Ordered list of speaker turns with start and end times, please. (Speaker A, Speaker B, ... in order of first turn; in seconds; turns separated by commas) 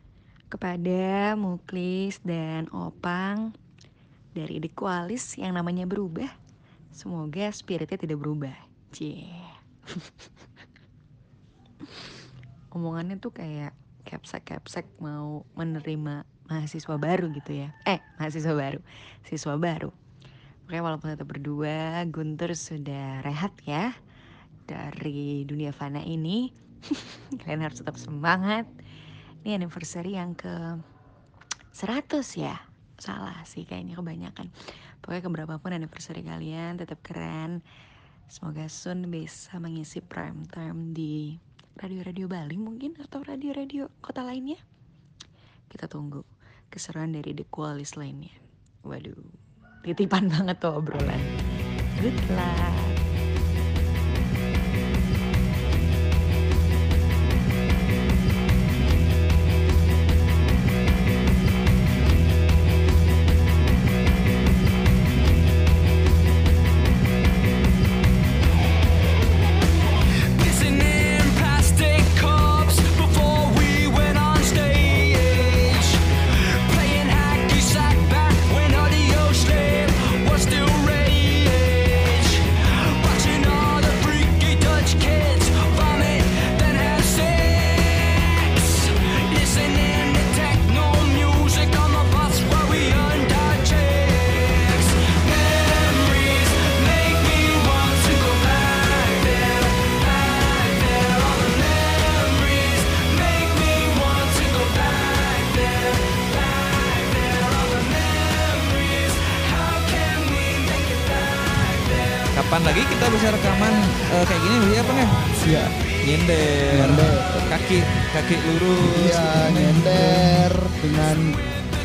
Speaker A: 0.5-3.5, Speaker A: 4.3-6.3, Speaker A: 7.0-10.1, Speaker A: 12.7-19.9, Speaker A: 20.7-23.9, Speaker A: 24.7-28.7, Speaker A: 29.4-30.8, Speaker A: 31.8-34.5, Speaker A: 35.0-37.6, Speaker A: 38.3-44.6, Speaker A: 45.7-49.3, Speaker A: 49.9-51.3, Speaker A: 52.0-53.0, Speaker B: 70.3-76.0, Speaker B: 76.6-112.3, Speaker C: 112.3-115.2, Speaker D: 115.4-115.7, Speaker C: 116.0-120.5, Speaker D: 116.7-117.3, Speaker D: 118.9-121.3